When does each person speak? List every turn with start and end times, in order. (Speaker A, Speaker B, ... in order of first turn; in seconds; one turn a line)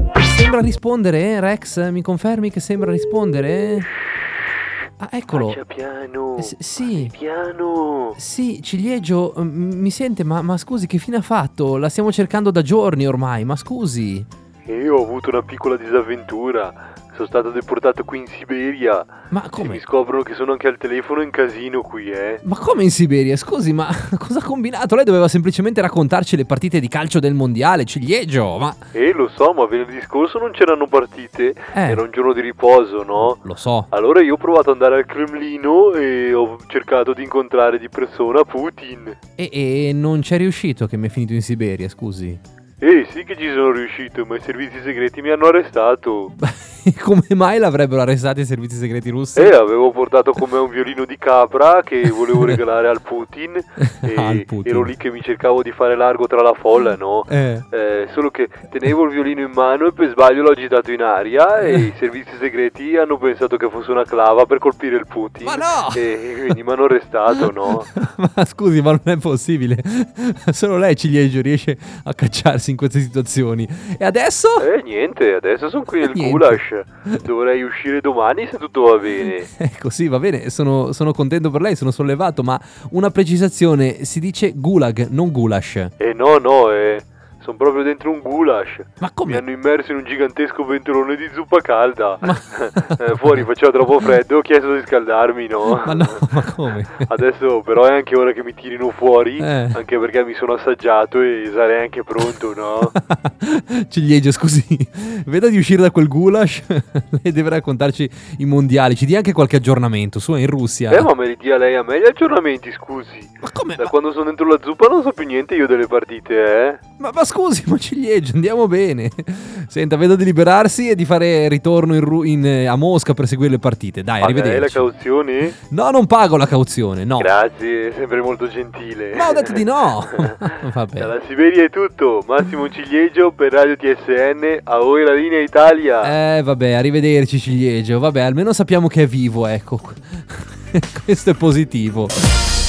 Speaker A: 0.2-3.9
Speaker A: 5.0-5.6
Speaker B: 5.3-8.2
Speaker A: 6.4-7.1
Speaker A: 8.2-14.3
Speaker B: 14.7-22.4
Speaker A: 19.3-19.8
Speaker A: 22.4-28.8
Speaker B: 28.9-39.2
Speaker A: 31.7-32.0
Speaker A: 33.2-33.9
Speaker A: 39.4-42.4
Speaker B: 42.8-46.3
Speaker A: 46.4-49.6
Speaker B: 49.3-67.9
Speaker A: 53.8-54.9
Speaker A: 57.3-57.6
Speaker A: 65.4-66.0
Speaker A: 67.3-74.7
Speaker B: 74.6-79.5
Speaker A: 76.0-77.2
Speaker A: 79.2-85.9
Speaker B: 86.0-102.9
Speaker A: 89.0-89.4
Speaker A: 92.2-93.4
Speaker A: 95.8-97.1
Speaker A: 99.4-99.8
Speaker A: 102.9-111.1
Speaker B: 110.9-116.8
Speaker A: 113.4-113.9
Speaker A: 117.0-124.8
Speaker B: 124.2-125.5
Speaker A: 125.7-127.3
Speaker B: 127.2-130.4
Speaker A: 129.1-131.1
Speaker B: 131.0-136.1
Speaker A: 136.0-142.1